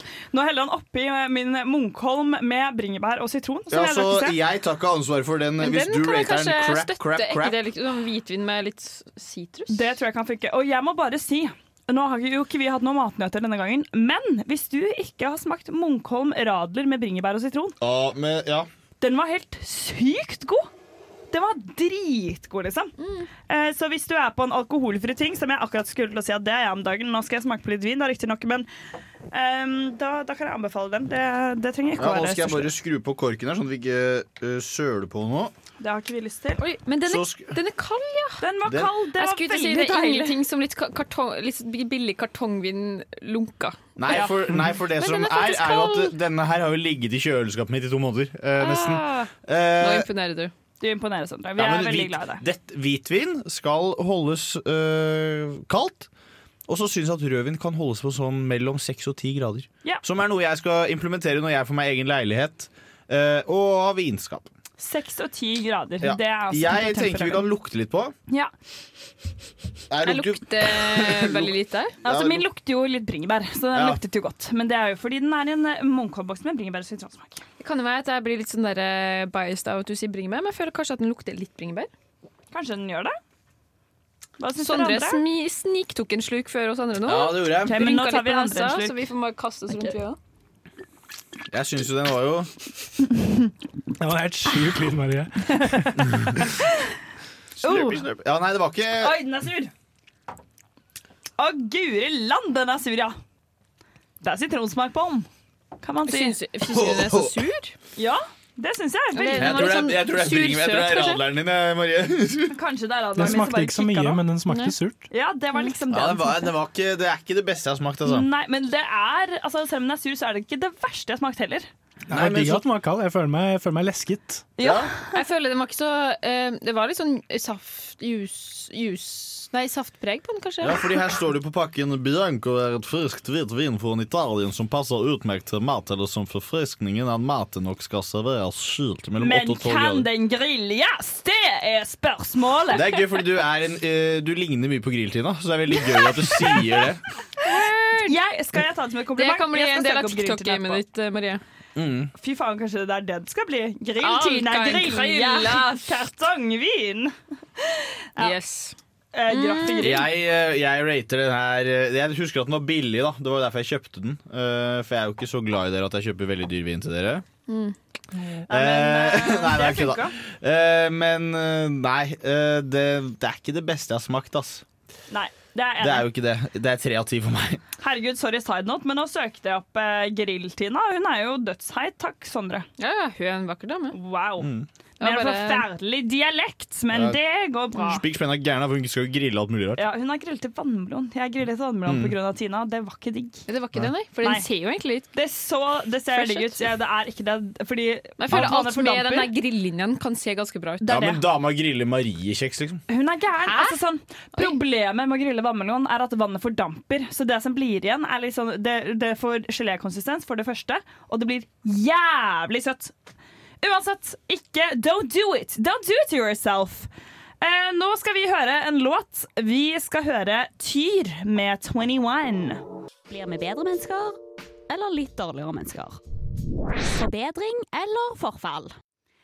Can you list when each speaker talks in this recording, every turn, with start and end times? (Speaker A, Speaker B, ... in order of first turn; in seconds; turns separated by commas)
Speaker A: 0.3-4.4, Speaker B: 3.7-7.6, Speaker C: 5.6-9.9, Speaker A: 9.7-17.8, Speaker B: 17.8-18.7, Speaker A: 19.0-20.7, Speaker A: 21.3-22.9, Speaker C: 23.0-23.3, Speaker A: 23.5-28.7, Speaker A: 29.3-32.7, Speaker B: 32.0-35.5, Speaker A: 35.8-36.6, Speaker C: 36.6-38.4, Speaker B: 37.1-37.5, Speaker A: 38.4-40.4, Speaker C: 39.2-46.1, Speaker B: 44.0-50.1, Speaker C: 48.6-50.5, Speaker A: 50.8-52.4, Speaker B: 51.6-56.1, Speaker B: 56.7-64.5, Speaker A: 64.8-67.5, Speaker B: 66.0-68.1, Speaker B: 69.9-71.5, Speaker C: 70.0-72.0, Speaker A: 72.0-77.4, Speaker B: 72.0-72.4, Speaker C: 77.6-81.9, Speaker A: 82.5-83.2, Speaker A: 84.4-85.2, Speaker C: 84.6-90.2, Speaker B: 87.1-87.8, Speaker A: 87.6-89.0, Speaker B: 91.5-92.5, Speaker D: 94.0-96.5, Speaker B: 97.6-99.2, Speaker A: 97.6-98.0, Speaker A: 99.0-99.7, Speaker A: 101.4-103.2, Speaker A: 104.2-105.3, Speaker A: 105.8-106.4, Speaker C: 106.1-107.8, Speaker B: 106.7-107.4, Speaker A: 108.0-109.8, Speaker C: 109.1-111.2, Speaker B: 109.3-112.5, Speaker A: 112.5-114.2, Speaker D: 113.2-115.1, Speaker C: 114.5-114.7, Speaker A: 115.1-116.5, Speaker B: 115.9-118.3, Speaker A: 118.0-121.7, Speaker B: 122.1-122.7, Speaker D: 122.1-124.5, Speaker A: 124.6-125.2, Speaker B: 124.6-124.9, Speaker C: 125.1-130.9, Speaker B: 130.6-140.1, Speaker A: 139.2-143.2, Speaker B: 142.7-147.0, Speaker C: 147.4-148.2, Speaker A: 148.0-150.8, Speaker C: 149.2-151.4, Speaker B: 151.8-152.1, Speaker A: 152.2-158.3, Speaker C: 154.0-155.9, Speaker C: 158.2-158.8, Speaker A: 159.1-160.1, Speaker C: 159.3-159.9, Speaker B: 159.8-167.2, Speaker C: 167.5-167.8, Speaker B: 168.5-174.6, Speaker A: 168.5-170.2, Speaker A: 175.1-176.1, Speaker B: 175.8-177.6, Speaker A: 177.8-182.7, Speaker C: 182.8-184.0, Speaker A: 183.9-188.0, Speaker B: 184.4-184.7, Speaker C: 185.0-185.7, Speaker B: 186.9-187.2, Speaker B: 187.8-189.8, Speaker A: 189.8-193.4, Speaker B: 191.9-192.2, Speaker C: 193.5-195.1, Speaker A: 195.1-199.3, Speaker C: 196.1-196.6, Speaker C: 198.2-200.9, Speaker A: 200.8-201.2, Speaker B: 200.9-202.8, Speaker A: 202.9-212.9, Speaker C: 203.4-203.8, Speaker A: 213.6-216.9, Speaker A: 217.4-222.6, Speaker E: 223.1-224.2, Speaker E: 224.7-226.0, Speaker E: 226.8-228.7